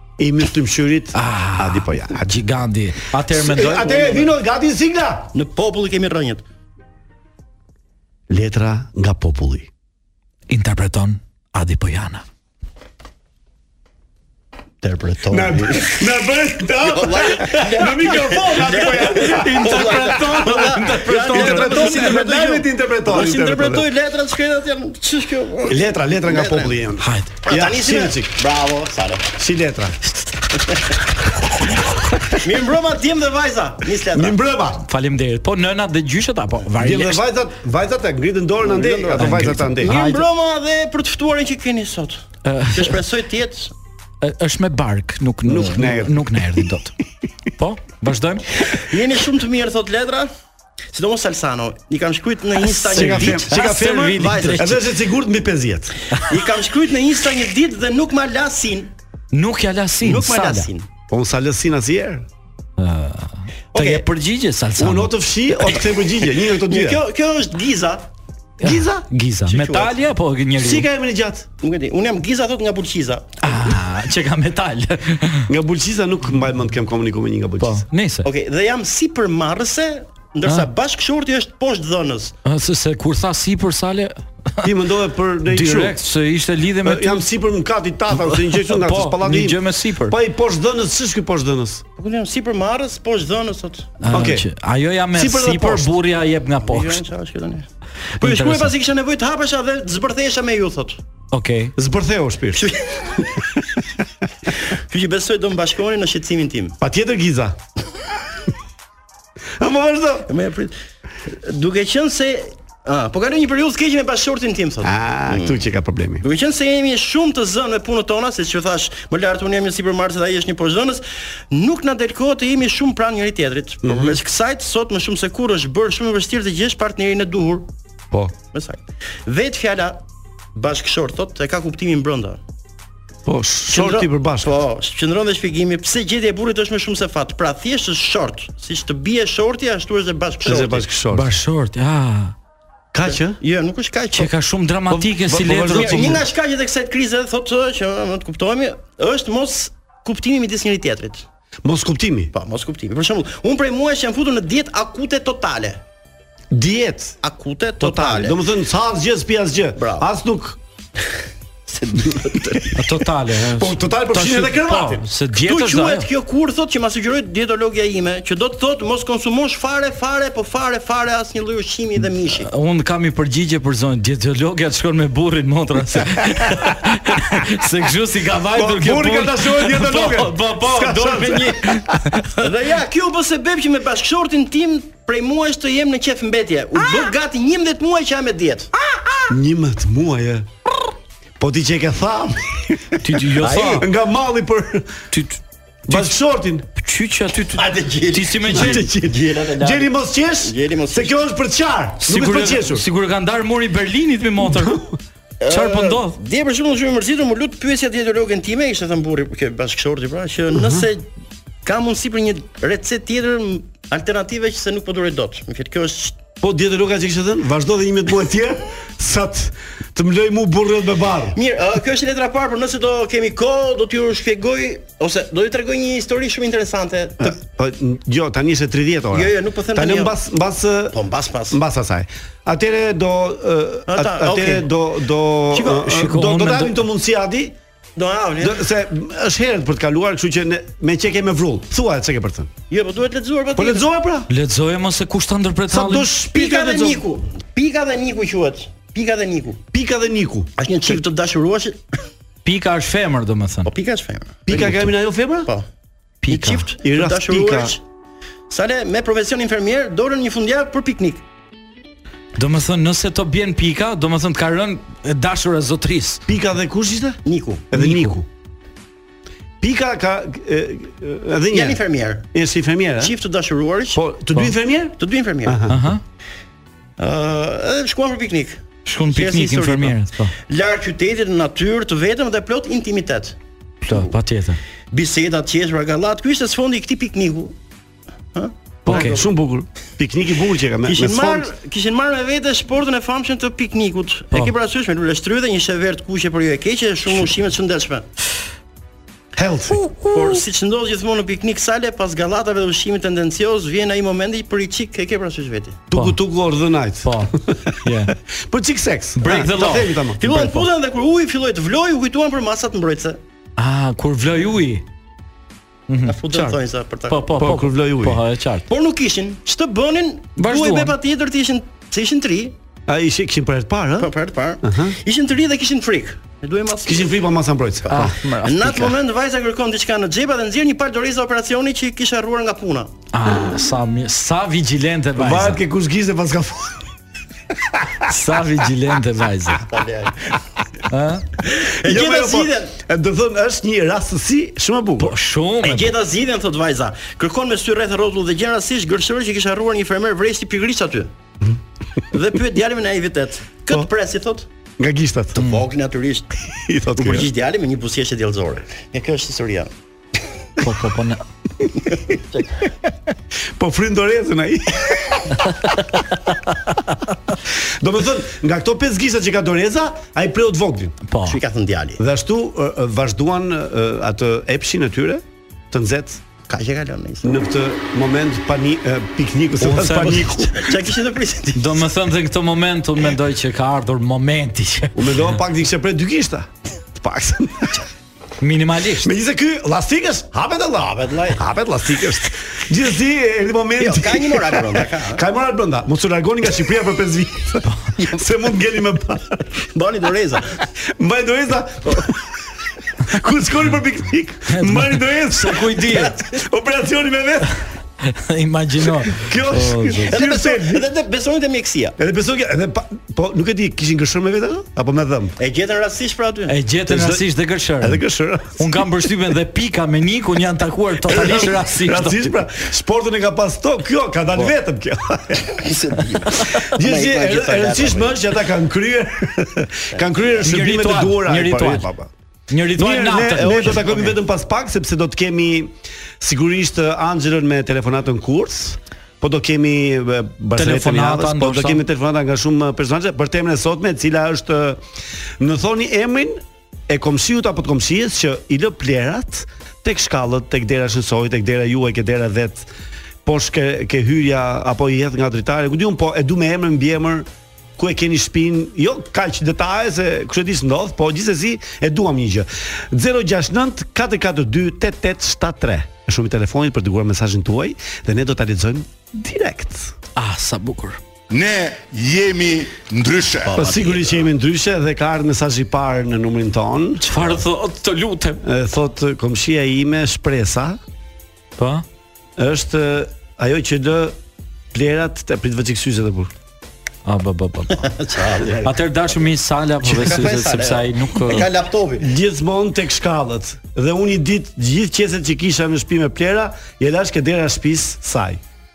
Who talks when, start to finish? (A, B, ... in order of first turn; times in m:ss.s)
0:00.2-0:02.4 A
0:01.1-0:04.1 B
0:03.3-0:05.3 A
0:03.8-0:04.3 C
0:05.3-0:06.4 C
0:08.3-0:09.7 A
0:10.5-0:12.2 B
0:14.8-0:16.0 C
0:15.3-0:20.3 A
0:16.8-0:26.8 C
0:18.0-0:22.1 B
0:21.3-0:23.9 A
0:25.6-0:28.4 A
0:27.0-0:27.3 B
0:27.4-0:29.3 C
0:29.4-0:30.0 A
0:32.3-0:34.4 C
0:34.1-0:34.8 A
0:34.8-0:37.2 B
0:36.8-0:40.0 A
0:38.6-0:43.7 C
0:39.2-0:40.2 B
0:42.4-0:43.0 B
0:44.2-0:46.9 B
0:45.4-0:46.6 A
0:47.6-0:48.4 B
0:48.7-0:50.3 C
0:50.9-0:53.6 C
0:52.6-0:54.7 B
0:52.9-0:56.0 A
0:54.1-0:54.8 C
0:56.2-0:58.9 C
0:59.3-1:00.7 B
1:00.0-1:00.8 C
1:01.1-1:02.2 A
1:02.8-1:05.1 B
1:03.7-1:04.0 C
1:04.8-1:07.0 A
1:06.6-1:08.1 C
1:08.6-1:10.8 B
1:08.6-1:09.1 A
1:09.5-1:09.9 C
1:10.6-1:11.5 A
1:11.6-1:13.4 C
1:13.4-1:15.5 B
1:15.5-1:17.8 A
1:17.6-1:18.3 B
1:18.2-1:22.3 C
1:22.4-1:24.7 B
1:24.6-1:26.0 A
1:25.4-1:27.3 B
1:26.8-1:31.8 A
1:28.1-1:30.2 B
1:32.0-1:34.0 C
1:34.0-1:37.0 B
1:34.1-1:34.5 A
1:35.1-1:36.0 A
1:36.6-1:37.7 C
1:38.2-1:38.7 B
1:38.2-1:41.0 C
1:41.3-1:41.7 B
1:41.8-1:42.7 A
1:42.5-1:43.4 C
1:44.6-1:46.8 C
1:46.8-1:47.6 A
1:49.6-1:50.3 A
1:50.3-1:50.7 C
1:51.3-1:55.6 C
1:54.8-1:56.2 A
1:56.2-2:07.7 C
2:03.8-2:04.2 A
2:08.5-2:10.0 C
2:10.5-2:12.4 C
2:13.2-2:14.5 A
2:13.7-2:20.9 C
2:20.4-2:21.3 A
2:21.1-2:22.3 B
2:22.9-2:23.4 A
2:23.0-2:24.3 C
2:24.2-2:26.2 B
2:24.9-2:26.2 A
2:25.5-2:31.2 C
2:31.6-2:32.3 A
2:32.3-2:35.8 C
2:36.5-2:37.2 A
2:37.2-2:38.4 C
2:37.8-2:40.6 A
2:39.8-2:40.0 C
2:41.7-2:42.8 C
2:42.7-2:46.1 B
2:43.6-2:45.0 A
2:45.3-2:52.5 C
2:52.4-3:02.4 B
2:58.5-3:02.0 A
3:02.4-3:08.7 C
3:09.3-3:10.5 A
3:11.4-3:13.0 A
3:13.0-3:13.8 B
3:13.4-3:13.8 C
3:13.6-3:15.0 A
3:15.1-3:16.1 B
3:15.9-3:16.6 A
3:16.8-3:18.8 B
3:17.5-3:19.9 C
3:18.5-3:22.8 A
3:20.4-3:21.2 C
3:22.0-3:24.8 B
3:24.5-3:25.0 A
3:25.4-3:31.0 C
3:25.5-3:26.2 B
3:30.5-3:30.9 A
3:31.6-3:36.2 C
3:36.4-3:41.4 A
3:41.3-3:47.4 C
3:47.2-3:51.0 A
3:49.1-3:50.2 C
3:50.9-3:51.6 C
3:51.5-3:57.6 A
3:53.9-3:54.7 C
3:55.5-3:55.9 C
3:55.8-3:56.8 B
3:58.0-3:58.7 C
3:58.4-4:02.5 A
4:02.7-4:03.9 C
4:03.6-4:04.3 A
4:04.3-4:06.1 B
4:05.7-4:07.0 A
4:06.3-4:09.6 C
4:09.7-4:11.0 A
4:10.6-4:11.8 C
4:12.4-4:13.7 B
4:13.6-4:15.6 C
4:14.4-4:15.5 A
4:16.2-4:16.6 B
4:16.3-4:17.8 C
4:16.8-4:17.8 A
4:18.5-4:21.2 C
4:22.4-4:26.2 B
4:26.3-4:27.2 A
4:27.2-4:27.6 C
4:27.7-4:28.3 A
4:27.7-4:28.2 B
4:29.6-4:31.8 A
4:31.5-4:32.3 C
4:32.3-4:33.1 A
4:33.0-4:34.0 C
4:33.9-4:35.9 A
4:35.0-4:35.6 C
4:35.7-4:36.0 B
4:37.0-4:43.4 C
4:38.8-4:40.3 B
4:43.8-4:44.6 B
4:44.9-4:47.5 C
4:48.3-4:49.1 C
4:48.8-4:49.2 B
4:48.8-4:51.5 A
4:50.8-4:58.0 C
4:59.4-4:59.8 A
5:00.1-5:05.8 C
5:05.9-5:10.7 A
5:07.0-5:08.1 B
5:09.2-5:09.9 B
5:10.2-5:13.2 C
5:13.6-5:14.8 B
5:15.9-5:16.6 B
5:16.1-5:17.2 C
5:17.1-5:18.7 B
5:17.3-5:18.2 A
5:18.7-5:22.5 C
5:20.4-5:20.9 B
5:22.9-5:24.1 A
5:24.0-5:27.2 C
5:24.6-5:25.0 A
5:26.8-5:28.2 A
5:27.8-5:32.9 C
5:27.9-5:28.9 B
5:33.1-5:35.6 B
5:35.2-5:36.9 A
5:38.0-5:39.7 B
5:39.7-5:40.4 C
5:40.9-5:41.2 B
5:41.4-5:42.7 C
5:41.8-5:45.1 A
5:45.0-5:45.9 B
5:45.6-5:51.1 C
5:52.1-5:54.5 C
5:54.8-5:55.4 A
5:55.3-5:56.3 C
5:56.5-5:57.3 A
5:57.0-5:59.7 C
6:00.6-6:01.2 B
6:01.9-6:02.4 C
6:03.6-6:05.4 A
6:07.5-6:11.0 A
6:11.1-6:11.4 B
6:11.2-6:12.0 C
6:12.0-6:16.2 A
6:16.5-6:17.4 C
6:17.2-6:20.7 A
6:19.6-6:20.3 B
6:20.0-6:21.9 C
6:21.6-6:25.4 B
6:25.0-6:27.9 A
6:28.4-6:29.1 B
6:29.0-6:39.6 A
6:30.8-6:31.4 C
6:33.8-6:35.2 C
6:39.7-6:40.6 C
6:40.8-6:42.3 A
6:43.0-6:47.6 A
6:44.5-6:46.2 B
6:45.9-6:46.2 C
6:48.0-6:50.1 B
6:49.1-6:50.8 A
6:50.1-6:52.0 C
6:52.0-6:55.4 A
6:55.4-6:56.6 C
6:56.5-6:58.0 B
6:56.9-6:57.2 A
6:57.8-6:59.0 A
6:58.6-7:02.4 B
7:01.0-7:05.6 A
7:05.6-7:08.2 C
7:06.5-7:12.1 A
7:09.9-7:10.3 C
7:10.4-7:11.9 B
7:12.5-7:14.1 B
7:12.7-7:24.8 A
7:13.4-7:14.1 C
7:20.6-7:21.8 B
7:25.4-7:32.7 A
7:33.2-7:37.3 A
7:37.8-7:49.9 A
7:50.2-7:51.0 B
7:51.3-7:53.6 D
7:53.4-7:54.2 C
7:53.5-7:57.0 A
7:57.0-7:58.4 B
7:58.4-8:00.8 A
8:01.6-8:01.8 B
8:02.4-8:04.2 A
8:04.7-8:06.3 A
8:07.0-8:07.9 B
8:07.8-8:08.7 C
8:08.6-8:11.5 B
8:09.8-8:12.1 C
8:12.0-8:18.4 A